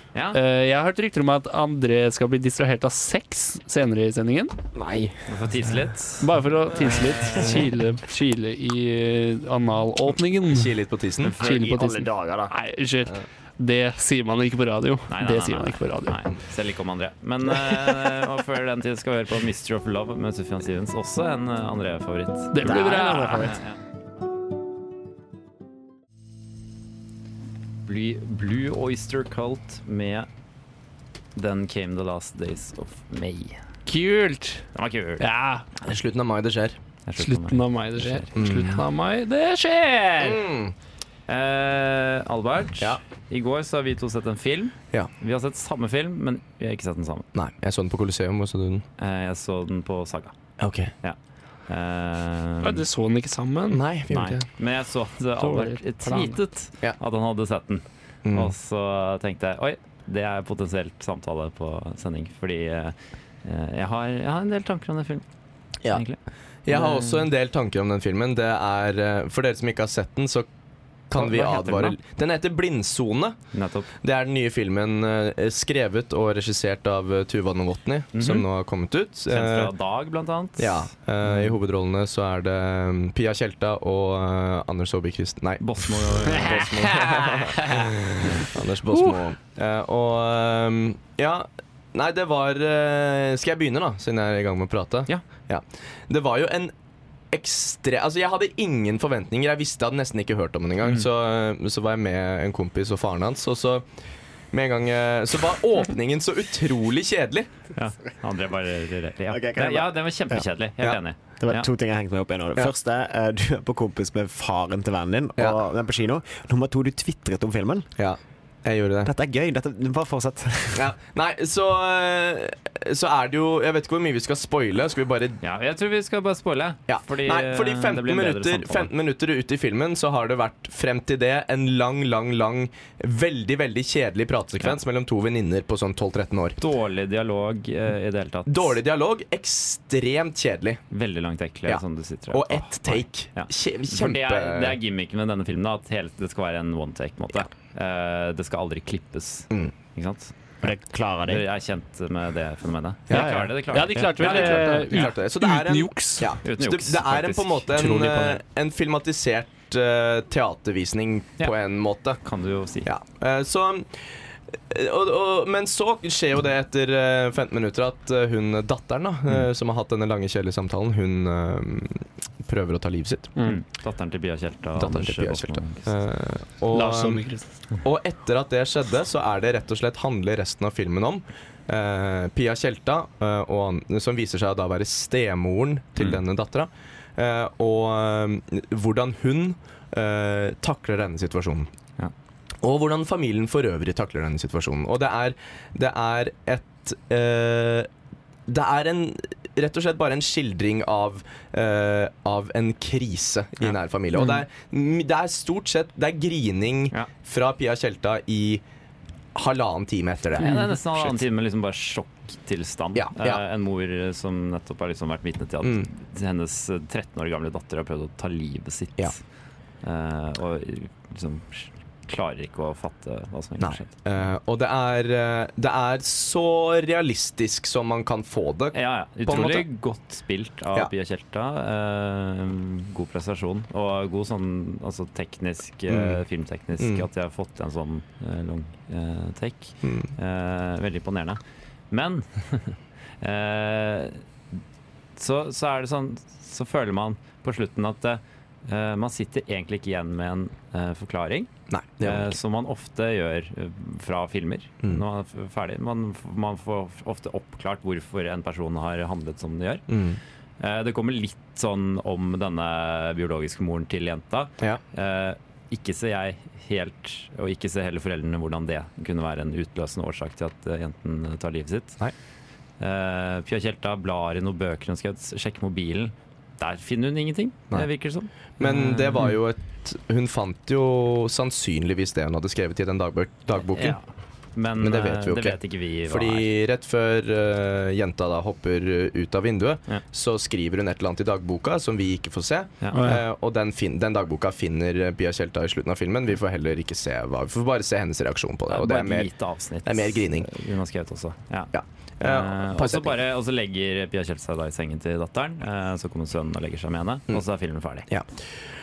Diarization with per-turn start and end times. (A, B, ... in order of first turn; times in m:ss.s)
0:00.3-0:04.5 A
0:04.8-0:05.2 B
0:05.3-0:07.7 C
0:06.2-0:10.7 A
0:10.5-0:11.4 D
0:11.2-0:11.5 C
0:11.4-0:12.5 B
0:11.4-0:16.2 A
0:15.1-0:23.8 C
0:22.5-0:23.5 A
0:22.6-0:23.6 B
0:27.9-0:30.3 C
0:31.4-0:33.6 C
0:33.9-0:34.7 A
0:34.8-0:35.2 C
0:35.2-0:35.6 A
0:35.8-0:36.8 D
0:37.1-0:38.3 C
0:37.2-0:40.4 A
0:38.4-0:38.8 D
0:40.2-0:40.8 D
0:41.3-0:47.3 C
0:47.3-0:48.8 D
0:49.0-0:50.3 C
0:50.6-0:50.9 D
0:51.7-0:52.8 C
0:52.6-0:53.8 A
0:53.7-0:54.4 D
0:54.1-1:05.2 C
0:55.4-0:56.4 A
0:58.2-0:58.5 D
1:05.9-1:06.2 C
1:06.7-1:10.5 D
1:06.7-1:07.3 C
1:11.1-1:13.4 D
1:11.1-1:12.0 C
1:13.5-1:13.9 C
1:14.0-1:19.7 D
1:18.1-1:18.5 C
1:19.3-1:21.6 C
1:20.6-1:36.7 D
1:25.6-1:28.5 C
1:37.3-1:43.9 D
1:44.5-1:47.5 D
1:47.7-1:51.7 C
1:49.3-1:50.4 B
1:51.4-1:57.9 B
1:58.0-1:59.1 D
1:59.0-2:00.9 B
2:00.8-2:05.4 D
2:05.4-2:08.9 C
2:06.9-2:16.6 D
2:16.6-2:18.8 C
2:18.5-2:20.8 D
2:20.9-2:30.3 C
2:21.7-2:24.8 D
2:30.6-2:31.5 B
2:31.3-2:35.1 C
2:33.1-2:33.5 D
2:33.1-2:33.5 B
2:33.7-2:36.3 A
2:34.1-2:42.2 D
2:36.4-2:38.0 C
2:37.8-2:38.3 A
2:42.2-2:42.9 C
2:42.8-2:44.0 D
2:44.7-2:53.3 D
2:53.4-2:53.6 A
2:53.4-2:55.9 C
2:54.8-2:57.2 D
2:56.7-2:57.5 A
2:57.8-3:11.7 D
3:12.6-3:17.9 D
3:18.5-3:28.6 D
3:29.4-3:31.2 D
3:30.4-3:39.2 C
3:33.0-3:33.4 D
3:39.8-3:43.9 C
3:43.6-3:49.7 D
3:48.7-4:01.4 C
3:55.9-3:56.2 D
3:56.8-3:57.0 D
3:59.8-4:00.1 D
4:01.9-4:04.2 C
4:05.2-4:11.5 C
4:11.7-4:12.4 D
4:12.0-4:19.9 C
4:19.9-4:20.2 D
4:20.6-4:32.0 C
4:32.8-4:39.4 C
4:38.6-4:44.0 D
4:43.7-4:44.0 C
4:44.6-4:46.5 C
4:44.8-4:59.3 D
4:52.8-4:53.1 C
4:52.9-4:53.2 A
4:58.7-5:08.1 C
4:59.8-5:00.5 D
5:01.7-5:03.1 D